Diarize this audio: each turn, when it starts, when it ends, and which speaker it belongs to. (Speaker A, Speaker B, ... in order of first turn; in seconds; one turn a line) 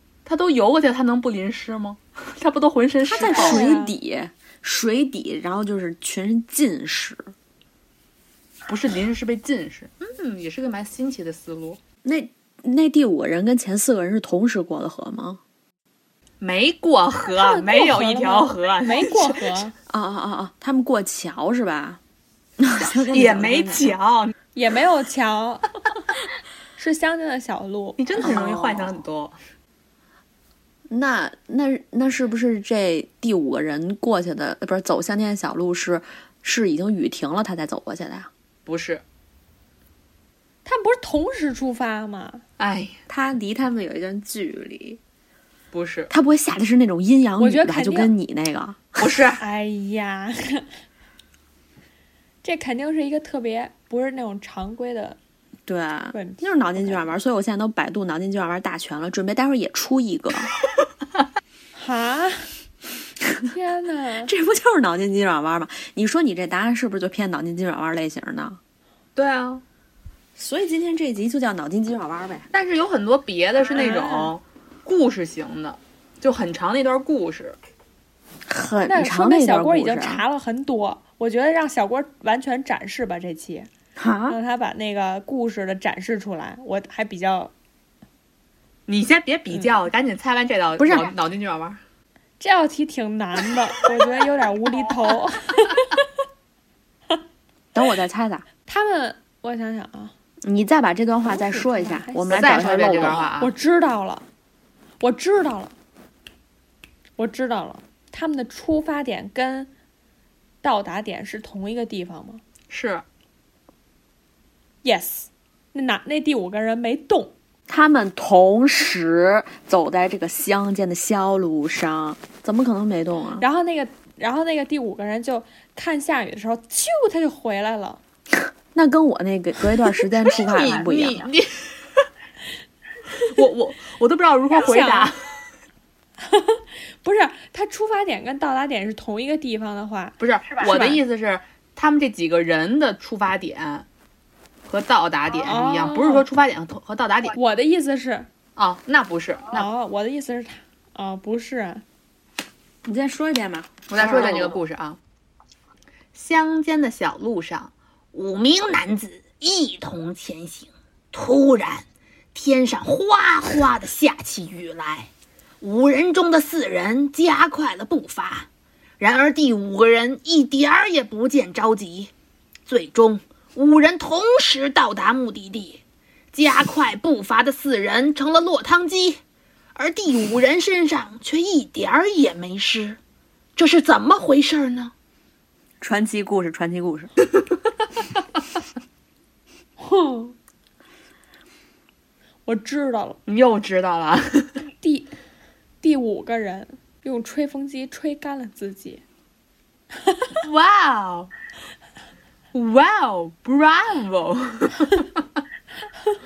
Speaker A: 0.2-3.7
Speaker B: 3.1-7.3
Speaker C: 3.2-3.9
Speaker A: 8.7-11.8
Speaker B: 12.0-15.4
Speaker A: 16.4-19.5
Speaker C: 17.3-19.7
Speaker B: 19.9-22.0
Speaker B: 22.6-23.9
Speaker A: 23.1-24.3
Speaker C: 24.5-25.6
Speaker C: 26.8-28.1
Speaker A: 28.0-29.3
Speaker B: 28.2-28.9
Speaker B: 30.9-38.3
Speaker A: 38.6-39.0
Speaker C: 40.6-42.4
Speaker A: 42.6-43.0
Speaker B: 43.1-45.0
Speaker A: 45.7-46.1
Speaker B: 46.1-49.1
Speaker C: 47.4-48.1
Speaker A: 49.0-49.4
Speaker C: 49.4-50.6
Speaker C: 52.4-55.2
Speaker B: 55.6-60.5
Speaker C: 56.1-57.0
Speaker C: 61.8-62.5
Speaker C: 63.5-64.3
Speaker B: 64.2-68.6
Speaker A: 69.2-69.6
Speaker B: 70.3-72.5
Speaker A: 72.5-77.6
Speaker C: 73.7-74.3
Speaker B: 78.5-80.2
Speaker C: 78.9-83.7
Speaker B: 84.0-84.4
Speaker C: 84.3-87.5
Speaker A: 88.9-91.8
Speaker B: 90.8-91.1
Speaker C: 92.4-95.8
Speaker B: 97.7-98.4
Speaker C: 98.7-100.1
Speaker B: 100.4-103.3
Speaker C: 101.3-104.2
Speaker A: 102.3-103.5
Speaker C: 105.0-105.7
Speaker C: 107.2-109.7
Speaker C: 110.6-112.4
Speaker A: 112.7-113.0
Speaker C: 114.8-117.3
Speaker B: 117.7-123.5
Speaker C: 123.4-128.0
Speaker B: 128.7-131.3
Speaker A: 130.3-132.0
Speaker A: 133.1-135.3
Speaker C: 134.6-135.1
Speaker C: 136.3-141.0
Speaker A: 140.2-143.8
Speaker A: 144.7-147.4
Speaker C: 145.4-146.2
Speaker C: 147.3-148.3
Speaker A: 148.6-149.7
Speaker C: 149.5-151.8
Speaker B: 152.8-154.6
Speaker A: 153.9-155.0
Speaker A: 156.1-165.1
Speaker A: 165.6-168.5
Speaker A: 169.0-172.1
Speaker A: 172.7-175.8
Speaker A: 176.3-179.2
Speaker A: 179.7-183.0
Speaker A: 183.6-184.9
Speaker B: 185.8-187.1
Speaker C: 189.8-190.3
Speaker C: 192.4-193.2
Speaker A: 193.3-194.6
Speaker C: 194.8-195.1
Speaker C: 195.8-199.0
Speaker A: 200.4-201.3
Speaker A: 202.5-205.1